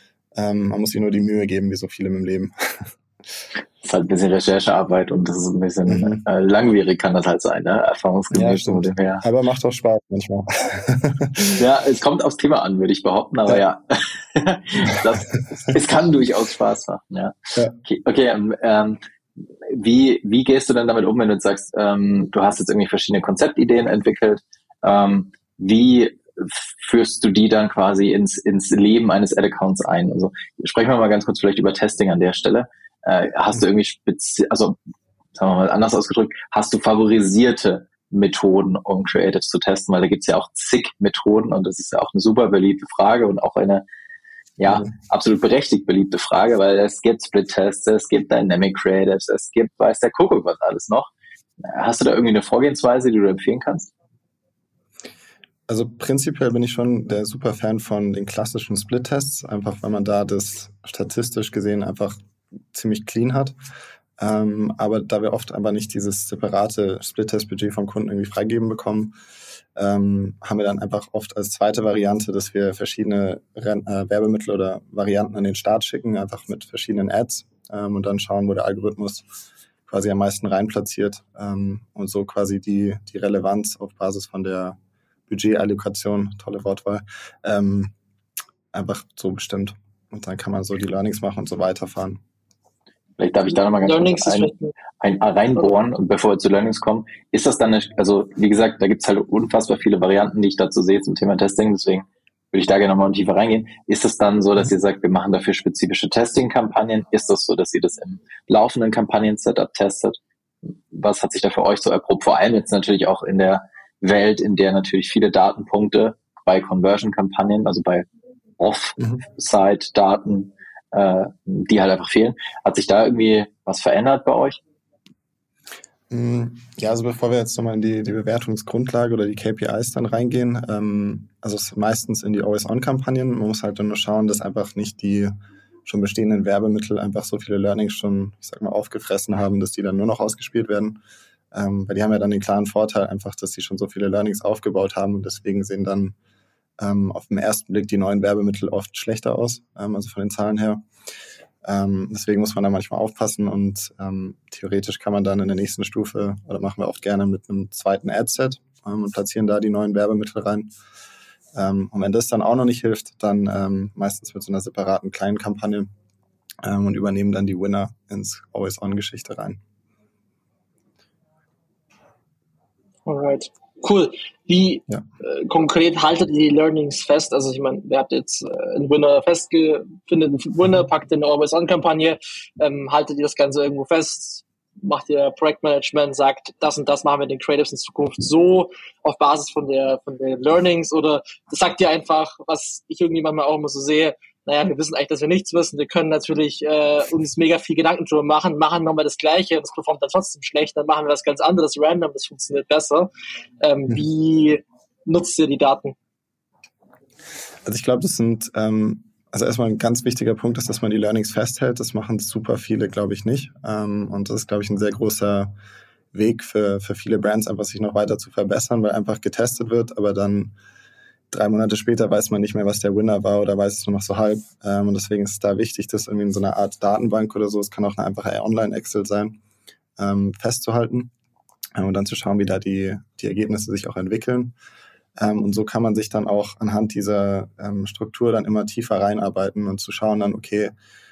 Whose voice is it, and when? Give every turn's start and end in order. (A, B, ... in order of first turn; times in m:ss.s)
0:00.3-0:02.9 A
0:03.8-0:09.2 B
0:05.9-0:06.2 A
0:08.3-0:11.6 A
0:11.5-0:19.0 B
0:19.7-0:34.8 B
0:35.3-0:43.8 B
0:44.6-0:51.1 B
0:44.6-0:44.9 A
0:51.6-0:53.9 B
0:55.7-1:02.2 A
1:02.7-1:03.5 A
1:04.2-1:09.1 A
1:09.7-1:19.3 A
1:19.9-1:24.8 A
1:25.3-1:27.9 A
1:28.7-1:32.2 A
1:33.2-1:50.2 B
1:33.8-1:34.7 C
1:50.9-1:58.0 B
1:58.6-2:04.6 B
2:06.1-2:15.3 A
2:15.8-2:21.0 A
2:21.5-2:26.1 A
2:26.8-2:30.8 A
2:31.6-2:40.7 A
2:41.5-2:45.9 A
2:46.6-2:49.6 A
2:53.0-3:23.1 C
3:23.6-3:25.9 C
3:27.6-3:35.5 A
3:36.1-3:40.5 A
3:41.3-3:49.4 A
3:50.0-3:51.1 A
3:51.8-3:54.5 A
3:55.2-4:00.7 A